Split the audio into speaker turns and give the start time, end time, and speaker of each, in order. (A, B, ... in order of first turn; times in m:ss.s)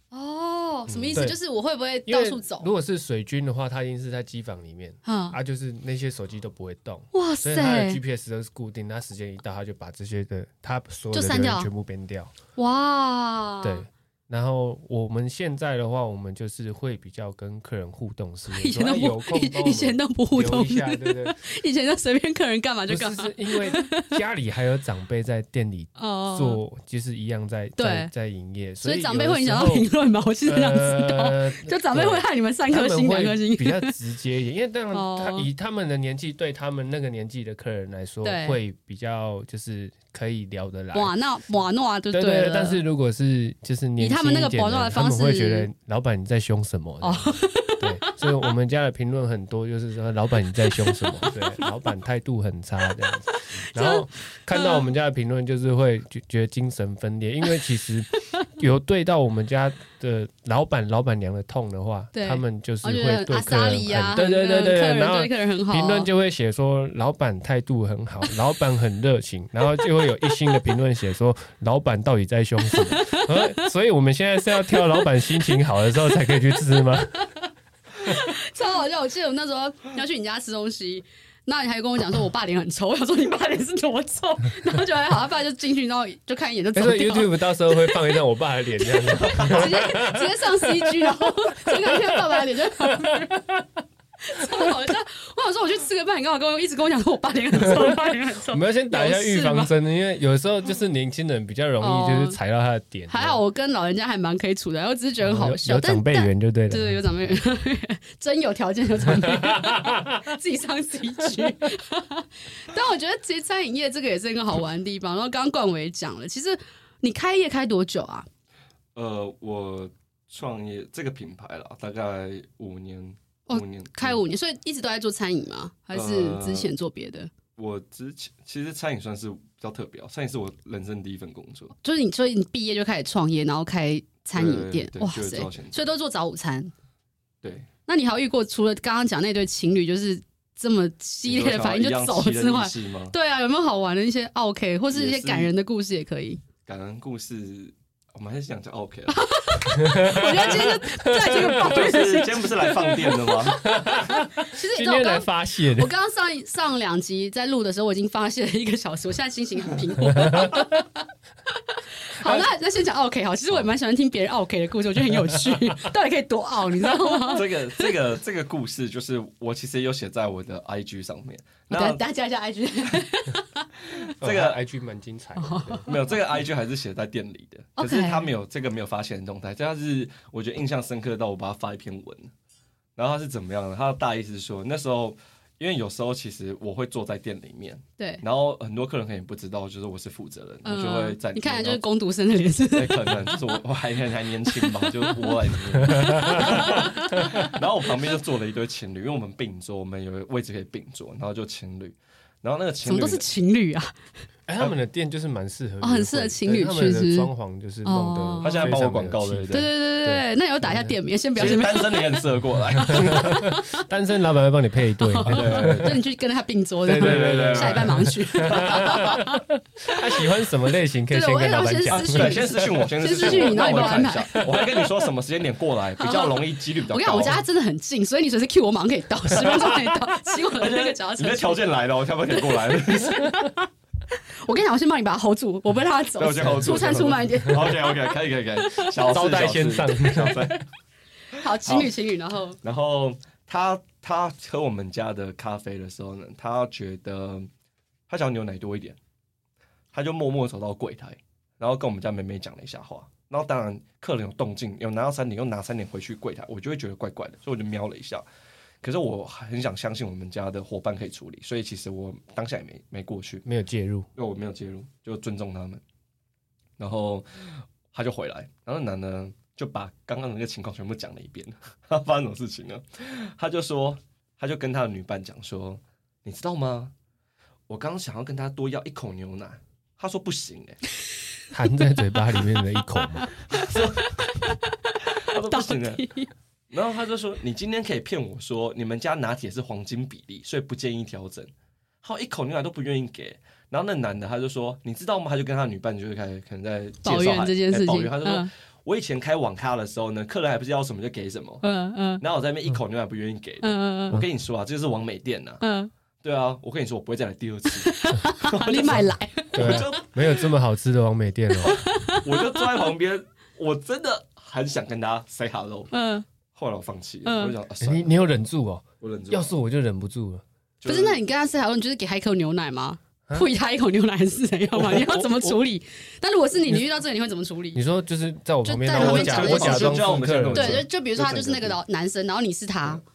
0:00.1-0:02.7 A
0:00.9-0:01.4 B
0:02.1-0:12.3 B
0:05.0-0:05.4 A
0:07.1-0:08.0 A
0:11.1-0:11.7 A
0:12.6-0:13.8 A
0:13.6-0:21.4 B
0:18.5-0:24.2 A
0:22.9-0:29.9 B
0:26.0-0:26.6 A
0:27.8-0:28.1 A
0:28.8-0:33.9 A
0:30.4-0:41.1 B
0:34.9-0:35.5 A
0:38.2-0:38.6 A
0:40.9-0:42.8 A
0:42.1-1:17.3 B
0:44.0-0:45.7 A
0:47.0-0:48.2 A
0:50.9-0:51.3 A
0:53.7-0:54.8 A
1:02.1-1:06.1 A
1:12.7-1:13.6 A
1:14.7-1:15.0 A
1:18.0-1:28.2 A
1:26.7-1:33.6 B
1:28.8-1:33.4 A
1:34.2-1:39.7 A
1:37.6-1:43.4 B
1:41.8-1:42.4 A
1:43.1-1:58.3 A
1:45.2-1:47.4 B
1:49.0-1:50.2 B
1:58.9-2:04.2 C
2:03.5-2:07.3 A
2:05.9-2:06.7 C
2:07.6-2:11.7 C
2:11.8-2:16.7 A
2:14.3-2:15.9 C
2:17.4-2:17.7 C
2:17.9-2:26.4 A
2:21.3-2:23.1 C
2:24.9-2:25.5 C
2:26.6-2:29.2 C
2:29.1-2:40.9 A
2:29.7-2:32.1 B
2:31.5-2:33.6 C
2:33.6-2:35.9 B
2:40.0-2:40.7 B
2:41.7-2:47.9 A
2:45.1-2:45.7 B
2:47.3-2:52.0 C
2:51.7-2:53.7 A
2:54.1-2:54.6 C
2:54.2-2:55.8 B
2:55.4-2:56.1 A
2:55.9-3:02.3 C
2:57.8-2:58.3 A
3:03.0-3:11.8 C
3:10.6-3:13.3 A
3:12.7-3:23.2 C
3:14.5-3:15.1 A
3:15.8-3:17.5 B
3:15.9-3:17.5 A
3:22.8-3:24.0 A
3:24.5-3:30.9 B
3:25.8-3:27.3 A
3:27.8-3:28.7 A
3:28.4-3:29.7 C
3:29.5-3:33.8 A
3:31.4-3:33.4 C
3:32.9-3:36.0 B
3:35.0-3:40.0 A
3:35.3-3:36.0 C
3:36.8-3:42.4 B
3:37.0-3:39.1 C
3:41.1-3:44.5 A
3:41.9-3:47.4 C
3:43.2-3:44.6 B
3:46.0-3:51.6 A
3:49.3-3:50.0 B
3:50.6-3:53.3 C
3:52.3-3:58.9 A
3:56.2-4:00.6 C
3:56.4-3:56.8 B
3:59.1-4:00.5 B
4:01.3-4:02.6 A
4:01.4-4:01.9 C
4:02.6-4:07.5 C
4:08.1-4:09.0 C
4:09.9-4:18.2 C
4:18.8-4:23.4 C
4:23.4-4:24.0 B
4:24.2-4:25.8 C
4:26.8-4:36.9 C
4:37.7-4:40.8 C
4:41.5-4:43.3 B
4:43.2-4:46.3 A
4:43.5-4:44.3 C
4:45.1-4:46.0 C
4:46.7-4:51.5 C
4:52.0-5:01.6 C
4:57.0-4:58.5 A
5:01.6-5:02.2 A
5:02.2-5:05.6 C
5:03.6-5:04.2 A
5:05.6-5:05.9 A
5:06.2-5:10.3 C
5:07.7-5:10.0 A
5:09.5-5:11.8 B
5:11.6-5:12.9 A
5:11.6-5:15.9 C
5:15.9-5:16.2 A
5:16.5-5:18.2 C
5:17.2-5:17.5 A
5:17.8-5:20.4 B
5:19.0-5:19.5 C
5:20.8-5:21.2 C
5:20.8-5:27.8 A
5:24.8-5:25.4 C
5:27.7-5:30.8 B
5:28.6-5:30.0 A
5:28.9-5:31.8 C
5:30.5-5:33.0 A